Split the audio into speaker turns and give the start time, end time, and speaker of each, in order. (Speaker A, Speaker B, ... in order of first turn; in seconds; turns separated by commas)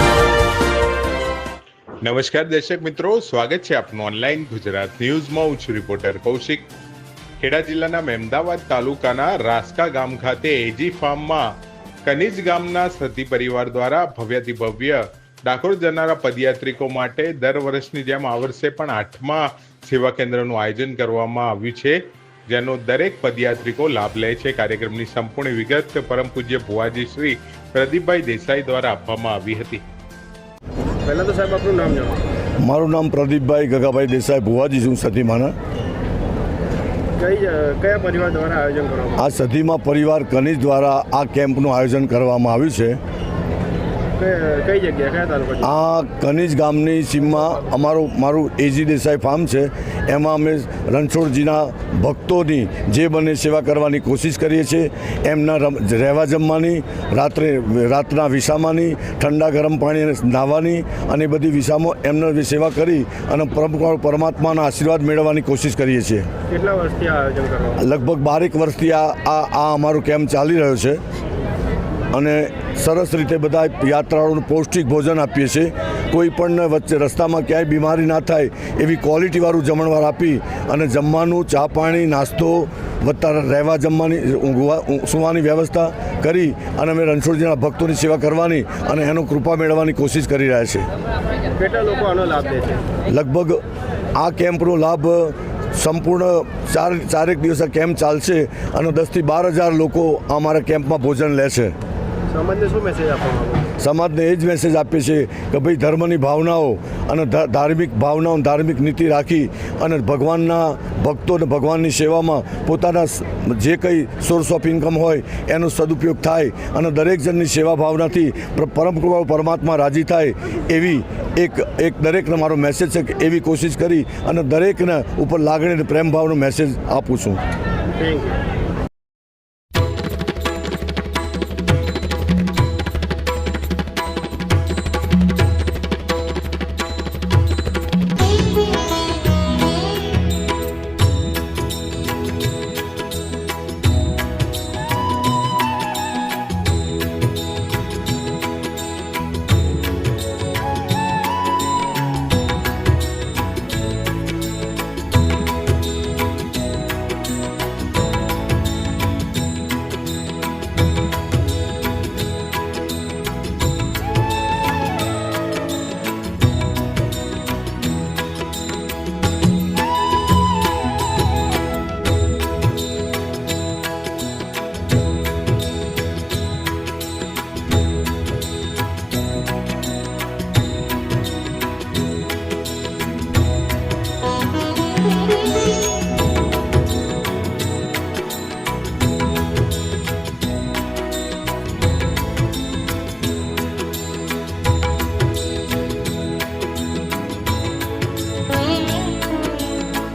Speaker A: 2.0-6.7, Speaker A: 7.4-11.5, Speaker A: 12.1-29.8, Speaker B: 31.0-32.2, Speaker C: 32.6-35.5, Speaker B: 37.2-39.3, Speaker C: 39.2-43.0, Speaker B: 44.2-45.7, Speaker C: 45.6-66.3, Speaker B: 66.5-67.9, Speaker C: 67.8-71.0, Speaker C: 72.1-90.9, Speaker B: 91.6-92.9, Speaker C: 93.1-93.6, Speaker C: 94.2-101.8, Speaker B: 102.3-103.7, Speaker C: 103.8-127.4, Speaker B: 128.0-128.4